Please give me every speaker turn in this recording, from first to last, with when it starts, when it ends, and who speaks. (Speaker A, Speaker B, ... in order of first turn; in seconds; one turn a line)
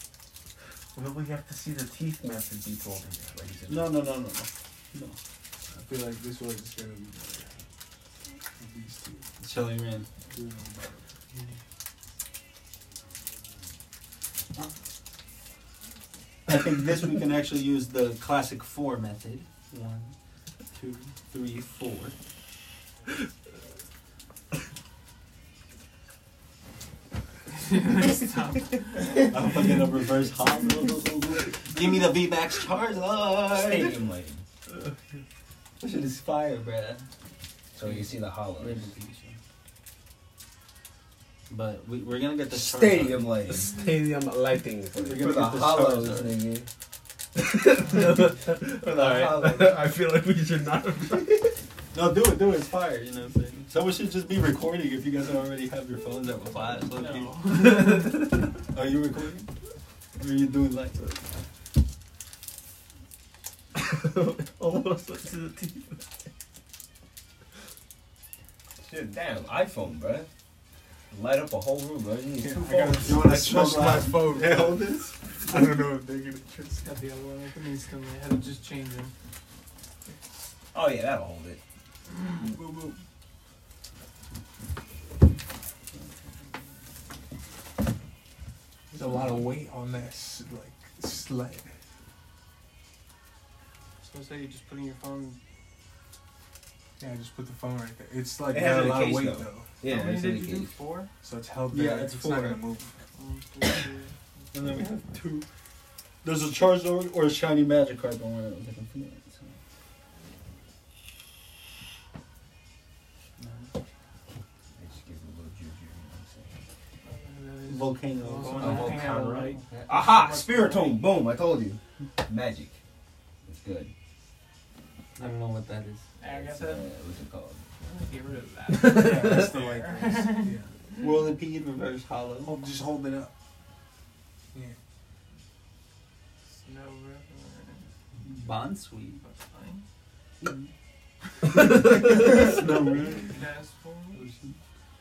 Speaker A: 0.9-4.0
Speaker B: 3.7-5.2
Speaker C: 5.7-7.5
Speaker C: 8.6-9.2
Speaker B: 9.4-10.1
Speaker C: 10.3-11.0
Speaker B: 16.5-20.1
Speaker B: 20.7-22.1
Speaker D: 27.5-29.2
Speaker B: 29.2-34.0
Speaker E: 33.5-34.4
Speaker B: 35.8-37.0
Speaker E: 37.7-38.9
Speaker B: 37.8-39.4
Speaker B: 41.5-43.3
Speaker E: 42.5-43.8
Speaker A: 43.5-45.2
Speaker E: 45.0-46.7
Speaker B: 45.0-46.4
Speaker A: 47.3-51.5
Speaker E: 48.9-49.7
Speaker B: 51.9-58.0
Speaker D: 56.8-58.3
Speaker A: 57.8-58.3
Speaker B: 58.7-59.5
Speaker B: 60.2-61.0
Speaker A: 63.7-66.0
Speaker E: 68.8-70.3
Speaker E: 71.1-73.2
Speaker C: 72.4-77.0
Speaker B: 72.7-75.1
Speaker D: 76.8-79.1
Speaker E: 80.7-81.6
Speaker C: 82.5-83.0
Speaker B: 85.9-86.5
Speaker C: 88.9-91.7
Speaker D: 94.0-95.4
Speaker C: 97.0-99.7
Speaker E: 98.5-100.8
Speaker D: 99.8-101.1
Speaker C: 101.2-103.0
Speaker B: 101.7-102.6
Speaker D: 103.1-104.5
Speaker B: 104.5-105.4
Speaker B: 106.2-109.6
Speaker B: 113.4-113.7
Speaker E: 114.8-116.6
Speaker D: 117.0-121.0
Speaker B: 117.7-119.9
Speaker A: 118.6-119.6
Speaker E: 119.9-122.8
Speaker E: 123.4-123.9
Speaker B: 125.2-126.1
Speaker D: 126.2-126.9
Speaker E: 126.2-127.6
Speaker D: 127.8-131.1
Speaker A: 128.7-129.5
Speaker C: 128.9-130.7
Speaker B: 131.0-132.6
Speaker C: 132.4-133.3
Speaker D: 136.5-137.9
Speaker B: 138.2-139.2
Speaker D: 139.1-139.8
Speaker B: 140.4-140.7
Speaker B: 141.5-143.4
Speaker A: 141.5-142.1
Speaker D: 143.1-144.2
Speaker B: 144.1-144.6